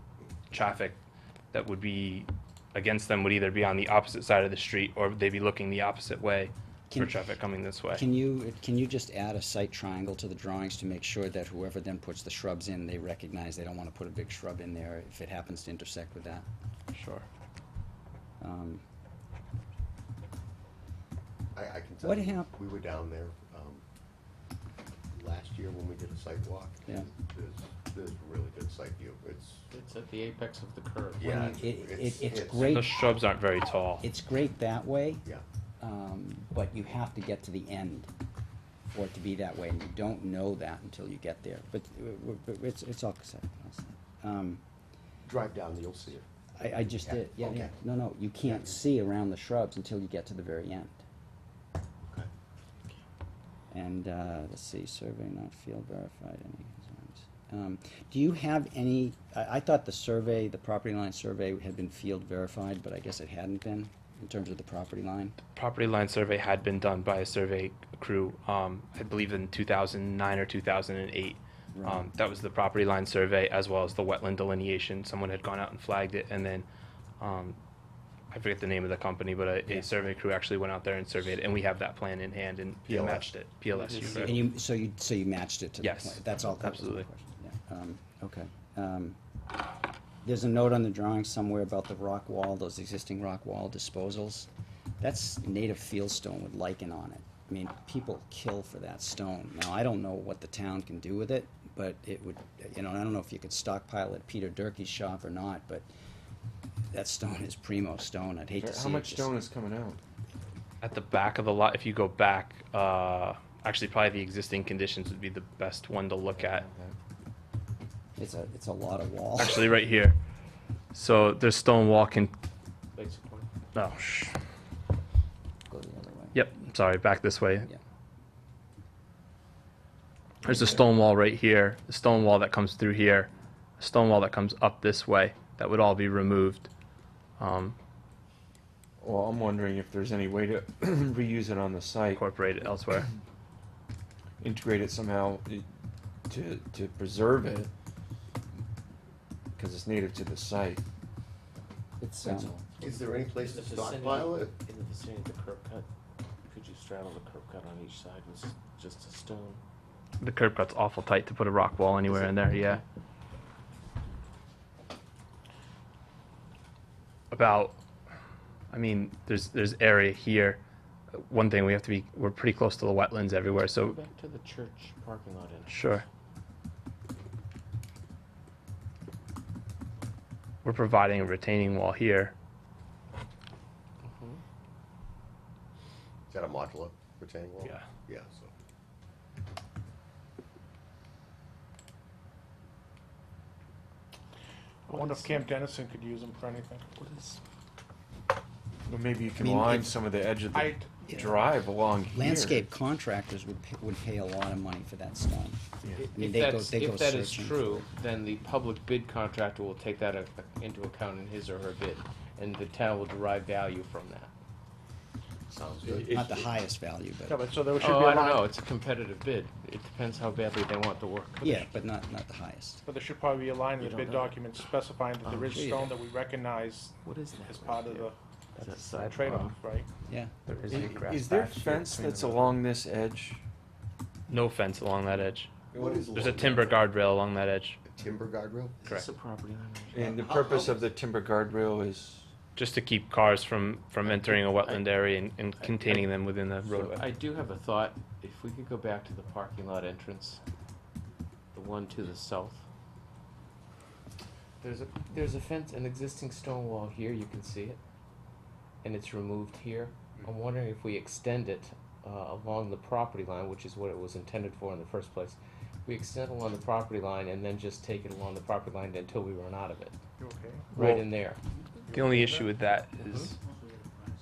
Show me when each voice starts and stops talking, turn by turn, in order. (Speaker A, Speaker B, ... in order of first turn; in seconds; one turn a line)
Speaker A: 0.5-1.0
Speaker A: 1.5-8.0
Speaker B: 6.9-7.2
Speaker B: 7.9-16.5
Speaker A: 16.9-17.2
Speaker B: 18.4-18.8
Speaker C: 21.5-23.8
Speaker B: 22.0-22.5
Speaker C: 25.1-29.6
Speaker D: 29.7-31.6
Speaker C: 31.2-32.9
Speaker B: 31.3-32.9
Speaker A: 32.6-34.0
Speaker B: 34.0-35.3
Speaker B: 35.8-38.1
Speaker B: 38.9-44.6
Speaker C: 45.2-46.3
Speaker B: 46.6-51.0
Speaker C: 47.0-47.8
Speaker C: 48.4-48.8
Speaker C: 52.0-52.3
Speaker B: 53.7-65.4
Speaker A: 65.5-76.7
Speaker B: 71.8-72.1
Speaker A: 77.2-77.6
Speaker A: 78.3-84.4
Speaker C: 82.9-83.3
Speaker D: 83.7-84.1
Speaker E: 84.0-84.3
Speaker B: 84.1-89.2
Speaker A: 85.8-87.1
Speaker B: 90.2-94.5
Speaker B: 95.0-105.9
Speaker B: 106.9-109.3
Speaker E: 108.6-110.0
Speaker A: 110.8-116.7
Speaker E: 116.3-117.0
Speaker B: 118.2-119.8
Speaker A: 119.4-120.2
Speaker A: 120.9-122.3
Speaker D: 123.0-123.5
Speaker A: 123.8-124.4
Speaker B: 125.7-126.4
Speaker A: 126.3-127.7
Speaker A: 130.4-136.7
Speaker A: 137.4-137.8
Speaker E: 139.0-142.2
Speaker A: 142.1-143.1
Speaker E: 144.4-145.7
Speaker E: 146.3-147.7
Speaker E: 149.6-150.8
Speaker B: 152.0-152.6
Speaker C: 152.7-154.6
Speaker D: 152.8-155.9
Speaker D: 156.5-159.6
Speaker A: 160.2-162.8
Speaker D: 162.1-162.8
Speaker A: 167.3-167.8
Speaker A: 168.7-170.6
Speaker A: 171.1-174.0
Speaker D: 173.6-175.8
Speaker A: 175.7-176.1
Speaker A: 180.6-182.3
Speaker D: 184.0-184.4
Speaker C: 186.3-188.5
Speaker F: 194.9-196.8
Speaker D: 194.9-195.5
Speaker D: 197.0-197.4
Speaker E: 198.9-202.7
Speaker B: 199.3-199.9
Speaker F: 200.5-200.9
Speaker B: 201.1-201.4
Speaker B: 202.1-205.6
Speaker D: 205.9-214.3
Speaker B: 206.1-207.8
Speaker C: 215.5-216.1
Speaker E: 215.9-216.5
Speaker B: 216.0-217.5
Speaker F: 217.3-218.4
Speaker D: 217.8-221.7
Speaker B: 221.4-222.8
Speaker F: 222.9-226.9
Speaker D: 223.8-224.6
Speaker D: 225.2-225.9
Speaker B: 225.5-225.9
Speaker D: 227.0-229.6
Speaker F: 227.5-228.1
Speaker F: 229.0-229.9
Speaker B: 230.1-230.3
Speaker A: 230.5-232.3
Speaker E: 230.7-233.4
Speaker A: 234.3-235.5
Speaker E: 235.7-236.6
Speaker C: 235.8-236.8
Speaker A: 236.1-237.8
Speaker C: 237.8-238.8
Speaker D: 238.8-240.0
Speaker E: 239.9-242.3
Speaker C: 240.0-240.9
Speaker A: 242.6-247.1
Speaker D: 244.0-245.0
Speaker D: 245.6-250.4
Speaker D: 251.5-252.6
Speaker D: 254.6-257.8
Speaker D: 258.8-270.0
Speaker F: 270.2-270.7
Speaker A: 270.8-271.1
Speaker D: 270.8-271.4
Speaker A: 271.9-273.4